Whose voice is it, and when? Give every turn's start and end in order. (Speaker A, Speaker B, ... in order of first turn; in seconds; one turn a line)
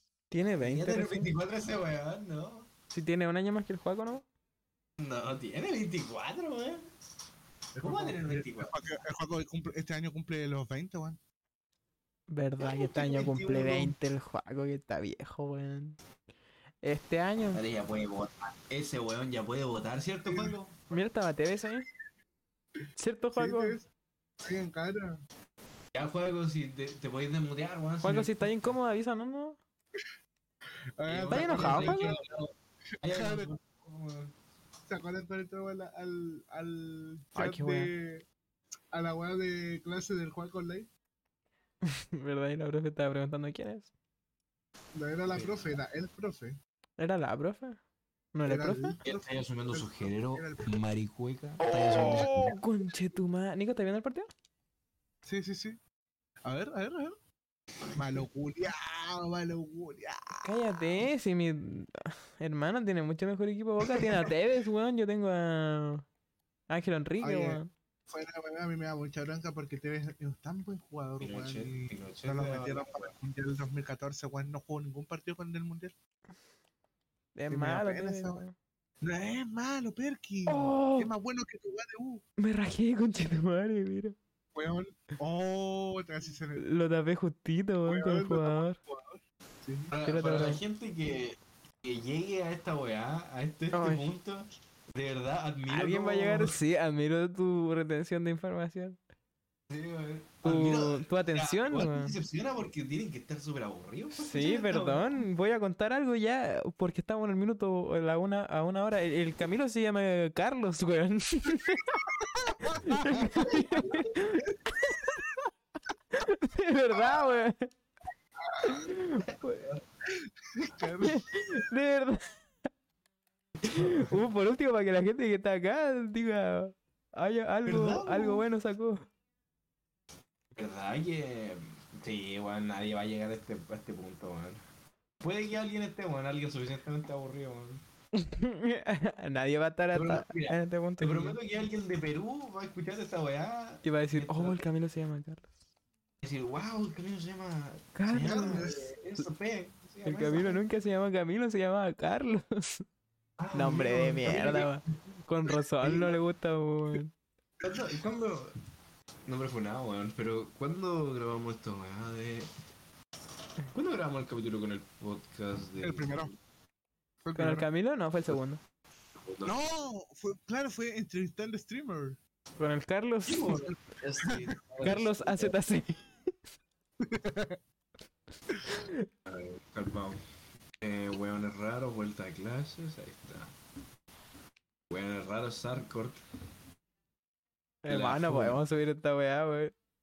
Speaker A: 0.3-1.3
Speaker B: 0.6-2.7
Speaker A: 2.9-4.2
Speaker B: 5.0-6.8
Speaker C: 7.7-11.2
Speaker B: 7.8-8.7
Speaker A: 12.3-16.0
Speaker B: 12.6-13.9
Speaker A: 16.8-17.6
Speaker B: 17.5-20.9
Speaker C: 20.2-20.5
Speaker A: 20.9-21.9
Speaker A: 23.0-23.8
Speaker C: 23.3-23.9
Speaker C: 24.4-25.2
Speaker B: 25.9-28.7
Speaker A: 28.0-29.6
Speaker C: 31.0-32.2
Speaker B: 31.1-34.3
Speaker A: 31.3-32.1
Speaker C: 33.0-33.5
Speaker C: 34.9-38.2
Speaker A: 37.4-37.9
Speaker C: 38.9-40.9
Speaker A: 41.8-43.9
Speaker C: 44.9-46.5
Speaker B: 45.3-45.7
Speaker A: 47.0-47.8
Speaker A: 48.3-49.0
Speaker C: 48.4-50.7
Speaker B: 49.0-52.5
Speaker A: 51.6-54.3
Speaker C: 51.9-52.6
Speaker C: 55.2-55.8
Speaker C: 56.4-57.2
Speaker C: 58.0-60.5
Speaker A: 60.4-66.0
Speaker A: 66.7-67.7
Speaker C: 67.2-75.9
Speaker B: 71.2-73.1
Speaker A: 77.3-78.5
Speaker C: 77.5-78.4
Speaker C: 79.0-82.2
Speaker A: 80.5-81.1
Speaker A: 82.4-84.2
Speaker C: 84.5-86.6
Speaker A: 86.6-88.8
Speaker C: 87.8-89.9
Speaker B: 89.9-96.6
Speaker A: 90.0-90.6
Speaker A: 93.7-94.1
Speaker A: 95.7-99.0
Speaker B: 99.7-105.1
Speaker A: 100.4-102.1
Speaker A: 104.2-112.0
Speaker C: 111.6-113.4
Speaker B: 112.7-114.2
Speaker A: 112.8-115.4
Speaker A: 116.1-117.7
Speaker C: 116.9-117.4
Speaker C: 118.5-118.8
Speaker A: 118.7-119.7
Speaker B: 119.2-119.8
Speaker C: 120.1-121.6
Speaker A: 121.0-122.3
Speaker B: 123.6-124.1
Speaker A: 123.7-129.1
Speaker B: 127.7-128.4
Speaker B: 130.6-134.6
Speaker B: 135.2-137.8
Speaker A: 138.1-141.4
Speaker B: 139.9-144.7
Speaker A: 143.8-145.5
Speaker B: 146.2-150.6
Speaker A: 147.9-148.6
Speaker C: 148.2-148.9
Speaker A: 150.0-152.8
Speaker B: 153.4-154.7
Speaker A: 153.5-157.1
Speaker C: 155.5-156.1
Speaker B: 157.6-158.5
Speaker B: 159.2-162.5
Speaker B: 163.7-166.3
Speaker C: 165.8-166.3
Speaker C: 167.2-167.7
Speaker A: 167.3-168.6
Speaker B: 169.2-169.5
Speaker C: 169.4-172.2
Speaker A: 172.6-173.6
Speaker B: 173.2-175.5
Speaker C: 173.6-174.4
Speaker A: 174.8-176.2
Speaker C: 177.0-177.6
Speaker A: 178.7-179.1
Speaker B: 179.2-180.2
Speaker B: 180.8-183.5
Speaker B: 184.9-186.2
Speaker A: 187.8-189.7
Speaker B: 187.9-188.6